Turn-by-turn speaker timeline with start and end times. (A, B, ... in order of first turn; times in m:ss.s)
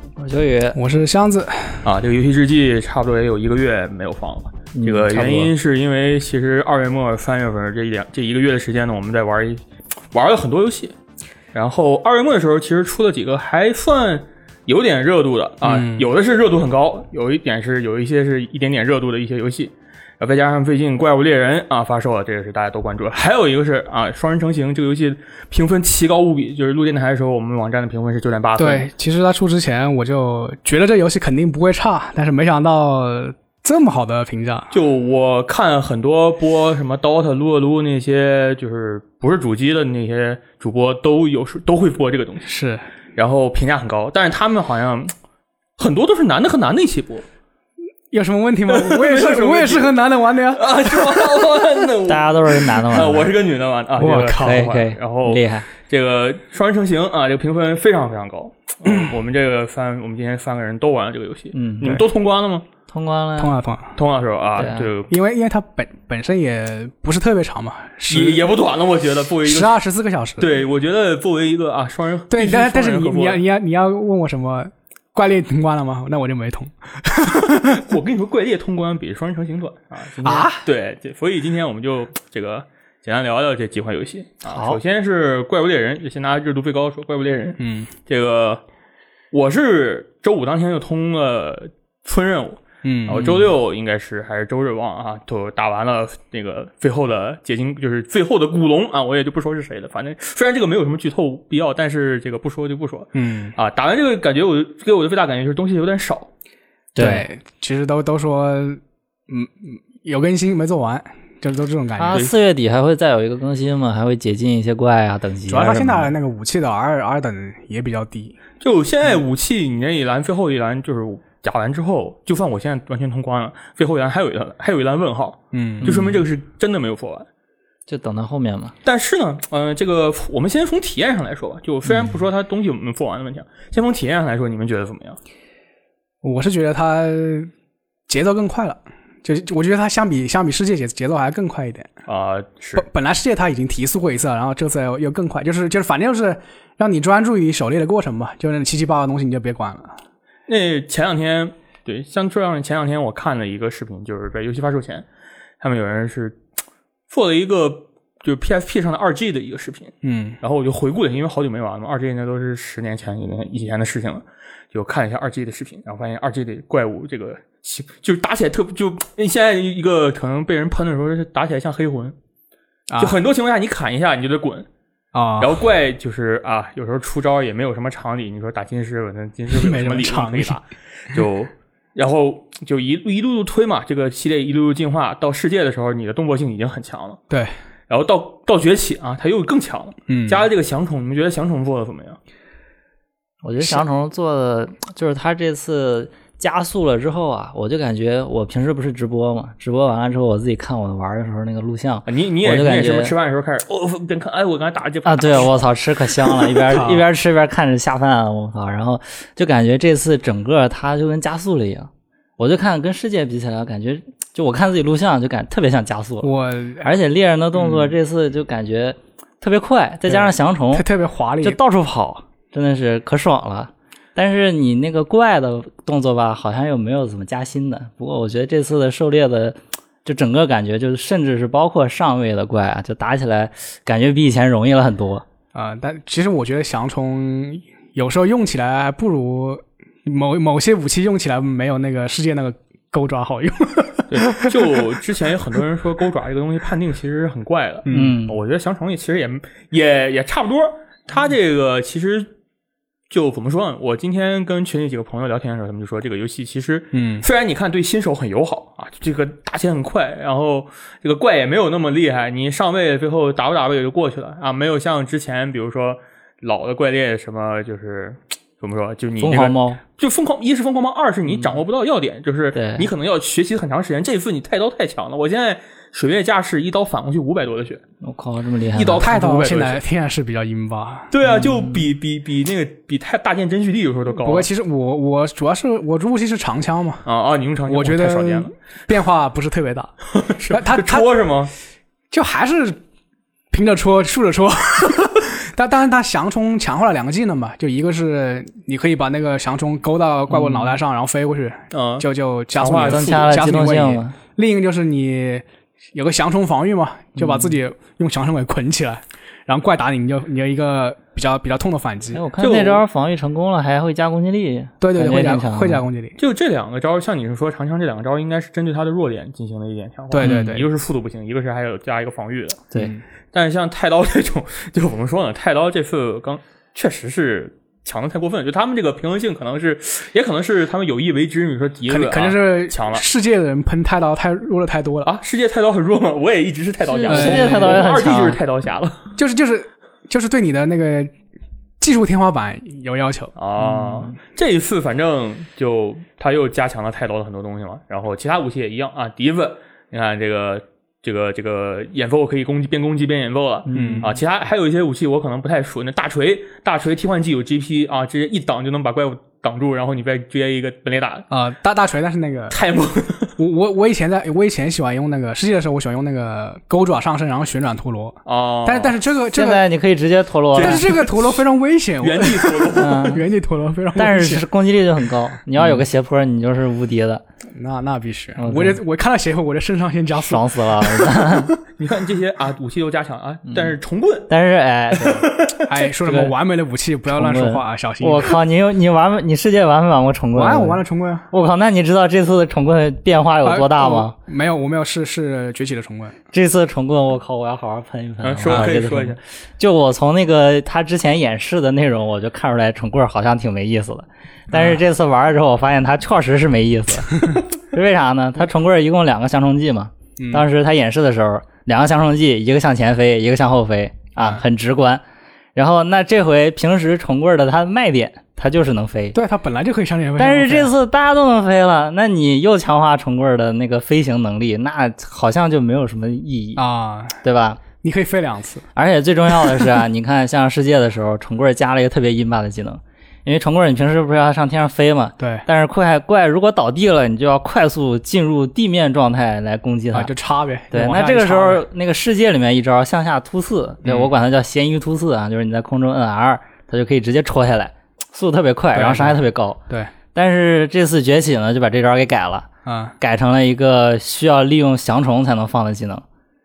0:00.2-0:00.8 A
0:00.8-0:01.8 B
0:01.8-0:09.6 C
0:04.7-0:05.5 A
0:10.1-0:11.0 C
0:11.5-0:28.9 C
0:15.6-0:16.1 B
0:28.6-0:34.7 B
0:34.7-0:42.5 C
0:42.4-0:42.8 B
0:43.2-0:45.1 C
0:45.8-0:47.2 C
0:48.1-0:51.3 B
0:48.7-1:02.6 C
0:52.1-0:53.3 A
0:54.0-0:54.7 B
0:54.4-0:55.7 A
1:01.5-1:02.0 A
1:02.9-1:03.6 A
1:03.4-1:04.0 B
1:04.0-1:05.1 C
1:04.6-1:04.9 A
1:05.1-1:08.4 B
1:08.1-1:09.8 C
1:09.4-1:10.5 B
1:10.4-1:13.4 C
1:12.3-1:17.9 B
1:17.7-1:28.6 C
1:20.2-1:20.6 B
1:24.5-1:24.8 A
1:27.6-1:27.9 B
1:29.3-1:46.3 C
1:32.8-1:33.3 B
1:33.1-1:33.4 A
1:43.2-1:43.6 B
1:47.0-1:47.3 A
1:47.0-1:52.3 B
1:52.0-1:56.1 A
1:55.5-1:58.4 B
1:58.6-2:07.3 C
2:05.5-2:05.9 B
2:05.8-2:06.2 A
2:07.9-2:08.8 A
2:08.8-2:15.2 C
2:16.2-2:17.5 B
2:18.1-2:21.9 B
2:22.1-2:22.9 C
2:22.8-2:30.0 B
2:30.5-2:35.1 C
2:35.6-2:36.4 C
2:37.1-2:52.2 C
2:40.0-2:40.4 B
2:52.9-2:53.2 B
2:53.0-2:54.7 C
2:55.1-2:55.6 B
2:55.4-3:07.2 C
2:59.5-3:00.6 B
3:07.9-3:12.2 C
3:10.1-3:10.5 B
3:13.4-3:23.2 A
3:22.1-3:25.6 C
3:25.0-3:40.9 A
3:26.2-3:26.9 C
3:26.7-3:27.0 B
3:36.2-3:36.9 B
3:40.1-3:41.6 B
3:41.4-3:55.2 A
3:55.5-4:04.9 B
4:04.1-4:12.3 C
4:07.9-4:08.2 B
4:07.9-4:08.4 A
4:13.1-4:37.8 C
4:16.9-4:17.3 B
4:29.2-4:29.8 A
4:31.3-4:31.6 A
4:32.5-4:32.9 A
4:38.0-4:39.1 A
4:38.8-4:39.8 C
4:39.0-4:41.1 B
4:41.1-4:44.5 C
4:41.2-4:41.9 A
4:44.2-4:47.0 B
4:47.0-4:48.5 C
4:47.7-4:49.9 B
4:50.1-4:51.5 C
4:50.5-4:51.1 B
4:52.1-4:52.8 B
4:53.5-5:12.2 B
5:00.3-5:00.8 A
5:01.7-5:03.4 C
5:02.9-5:04.2 A
5:07.2-5:07.6 A
5:12.2-5:15.8 A
5:12.4-5:12.8 C
5:14.8-5:16.2 B
5:16.2-5:22.6 C
5:20.1-5:20.7 B
5:20.2-5:20.6 A
5:22.7-5:23.0 B
5:23.3-5:33.0 C
5:31.9-5:35.1 B
5:35.0-5:39.1 C
5:36.9-5:38.4 A
5:37.1-5:37.9 B
5:39.2-5:41.1 B
5:41.8-5:43.3 B
5:43.4-6:01.3 C
5:43.6-5:44.2 A
5:53.7-5:54.2 A
5:53.8-5:54.1 B
6:01.3-6:02.6 B
6:02.5-6:03.4 C
6:03.4-6:09.7 B
6:08.3-6:09.0 C
6:09.3-6:10.9 A
6:10.5-6:14.5 B
6:10.6-6:11.4 C
6:12.0-6:13.2 C
6:12.8-6:13.2 A
6:14.0-6:17.2 A
6:17.6-6:21.2 B
6:18.4-6:18.8 A
6:20.1-6:21.5 A
6:21.6-6:24.3 C
6:23.5-6:23.8 A
6:24.3-6:25.3 A
6:24.9-6:25.7 C
6:25.7-6:28.4 B
6:26.0-6:26.3 A
6:27.1-6:34.2 A
6:30.4-6:31.3 B
6:33.4-6:36.2 B
6:36.3-6:55.0 A
6:38.2-6:39.2 C
6:44.5-6:44.8 B
6:50.2-6:50.5 B
6:55.6-6:59.2 A
6:59.1-7:00.7 B
7:00.2-7:06.6 A
7:06.6-7:07.2 B
7:07.2-7:07.6 A
7:07.8-7:08.6 B
7:08.8-7:20.1 A
7:15.2-7:15.4 B
7:19.9-7:21.7 B
7:20.7-7:29.6 A
7:23.8-7:24.1 B
7:28.7-7:29.9 B
7:30.1-7:32.5 A
7:32.7-7:33.0 B
7:33.0-7:36.0 A